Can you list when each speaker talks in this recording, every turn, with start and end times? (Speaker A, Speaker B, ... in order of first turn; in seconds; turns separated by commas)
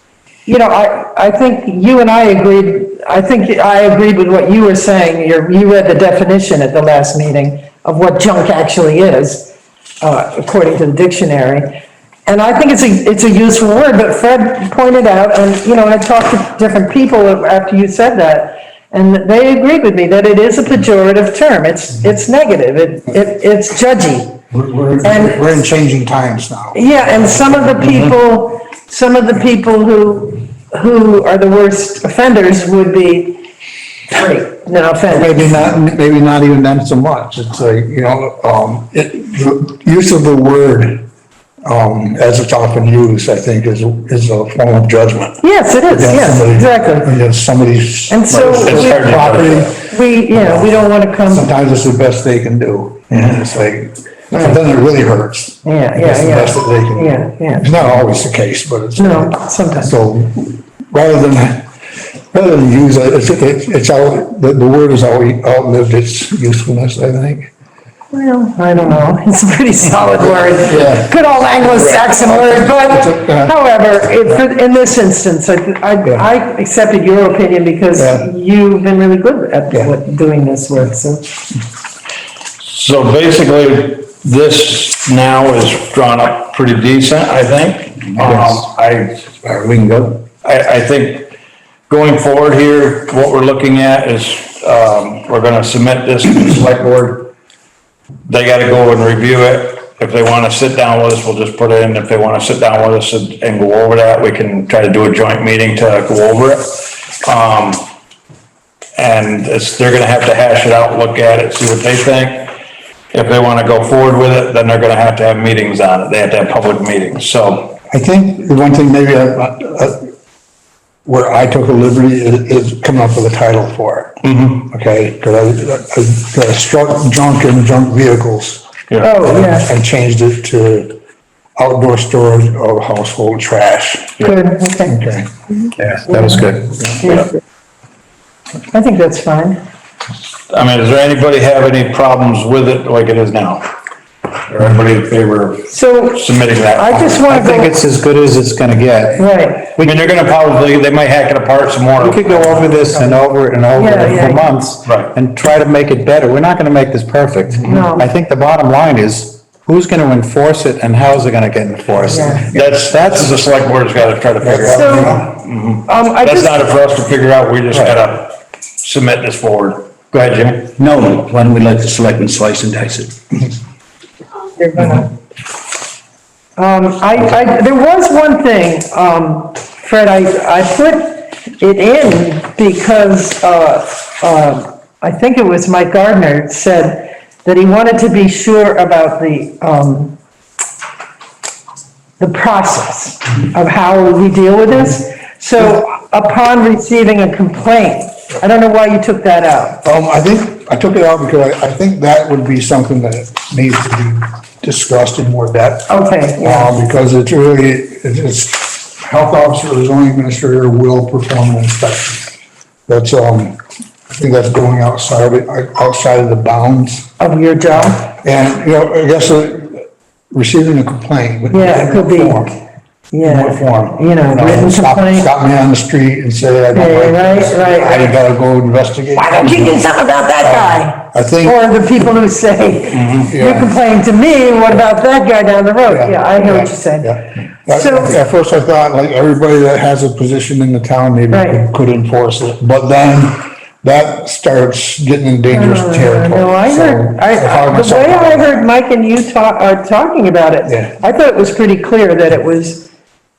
Speaker A: 0.5-24.4, Speaker B: 24.5-26.8, Speaker A: 25.0-25.5, Speaker A: 26.7-33.4, Speaker A: 34.1-35.5, Speaker B: 35.1-41.1, Speaker B: 41.6-49.8, Speaker A: 45.4-47.1, Speaker A: 48.1-51.5, Speaker C: 48.3-49.7, Speaker B: 50.3-50.7, Speaker B: 51.2-61.7, Speaker A: 55.6-57.7, Speaker A: 59.0-59.9, Speaker B: 62.3-67.5, Speaker A: 68.1-81.3, Speaker B: 70.6-73.5, Speaker B: 77.9-78.3, Speaker C: 82.6-89.3, Speaker D: 88.2-88.6, Speaker D: 89.4-90.2, Speaker C: 90.4-91.3, Speaker C: 91.9-97.3, Speaker C: 98.3-107.9, Speaker C: 109.0-112.5, Speaker C: 113.1-117.8, Speaker B: 117.9-120.1, Speaker B: 121.0-128.7, Speaker C: 124.2-124.7, Speaker A: 129.0-129.7, Speaker B: 129.2-130.9, Speaker B: 131.6-134.3, Speaker A: 134.2-134.9, Speaker B: 134.9-135.3, Speaker D: 135.8-136.8, Speaker A: 136.2-136.4, Speaker A: 137.0-137.3, Speaker A: 138.7-139.6, Speaker C: 140.5-143.7, Speaker C: 144.5-147.2, Speaker A: 145.7-146.2, Speaker A: 146.7-147.7, Speaker D: 147.2-150.0, Speaker A: 149.2-149.7, Speaker C: 149.8-152.7, Speaker D: 152.0-163.3, Speaker A: 152.9-153.2, Speaker A: 153.7-154.5, Speaker C: 154.8-155.1, Speaker A: 157.6-158.1, Speaker A: 162.0-162.5, Speaker C: 162.5-170.7, Speaker B: 164.4-165.2, Speaker A: 164.7-165.3, Speaker A: 165.8-166.7, Speaker E: 170.8-173.2, Speaker A: 174.6-175.1, Speaker A: 176.6-190.2, Speaker A: 192.2-199.8, Speaker B: 199.8-212.3, Speaker A: 205.9-206.7, Speaker B: 212.9-213.6, Speaker B: 214.1-217.1, Speaker A: 217.2-218.1, Speaker B: 217.8-222.5, Speaker A: 221.5-222.6, Speaker A: 223.1-225.3, Speaker B: 223.2-229.8, Speaker A: 226.7-228.2, Speaker A: 229.2-238.2, Speaker B: 230.4-231.5, Speaker C: 232.9-233.3, Speaker B: 233.2-233.7, Speaker B: 235.9-248.7, Speaker A: 241.3-241.6, Speaker A: 245.5-252.9, Speaker B: 250.7-250.9